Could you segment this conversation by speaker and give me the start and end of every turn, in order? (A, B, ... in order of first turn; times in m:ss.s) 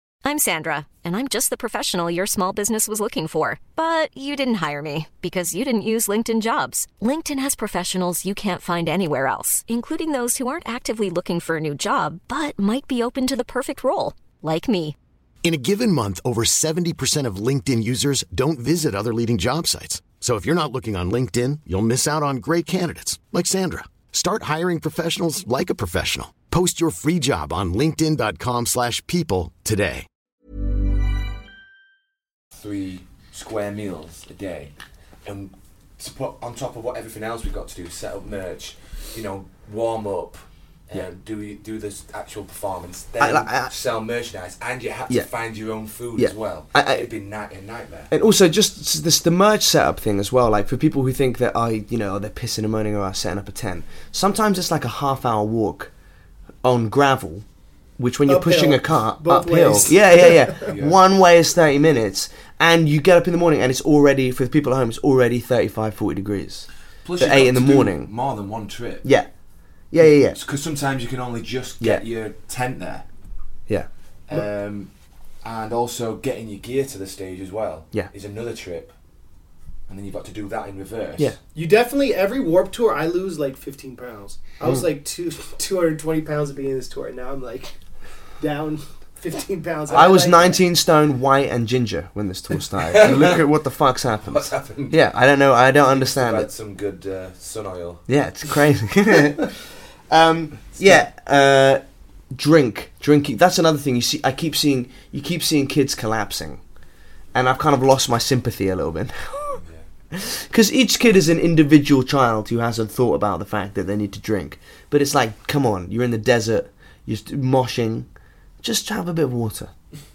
0:00.2-0:15.0 A
0:15.4-0:30.1 B
0:32.5-0:34.7 C
0:35.2-0:48.1 C
0:43.2-0:43.7 D
0:46.2-0:47.1 D
0:48.1-0:55.9 D
0:56.6-0:57.4 D
0:58.0-1:08.1 D
0:58.3-1:00.6 E
1:00.6-1:01.0 C
1:07.0-1:09.0 C
1:09.0-1:09.3 D
1:09.9-1:10.4 D
1:10.3-1:13.0 C
1:14.3-1:14.9 C
1:15.4-1:18.9 C
1:19.9-1:21.4 C
1:21.6-1:27.8 E
1:28.4-1:30.6 E
1:29.9-1:36.5 D
1:32.8-1:33.4 C
1:34.2-1:35.0 C
1:35.9-1:38.0 C
1:38.1-1:41.8 D
1:42.3-1:46.6 D
1:47.3-1:58.1 D
1:49.6-1:49.8 C
1:58.6-1:59.7 D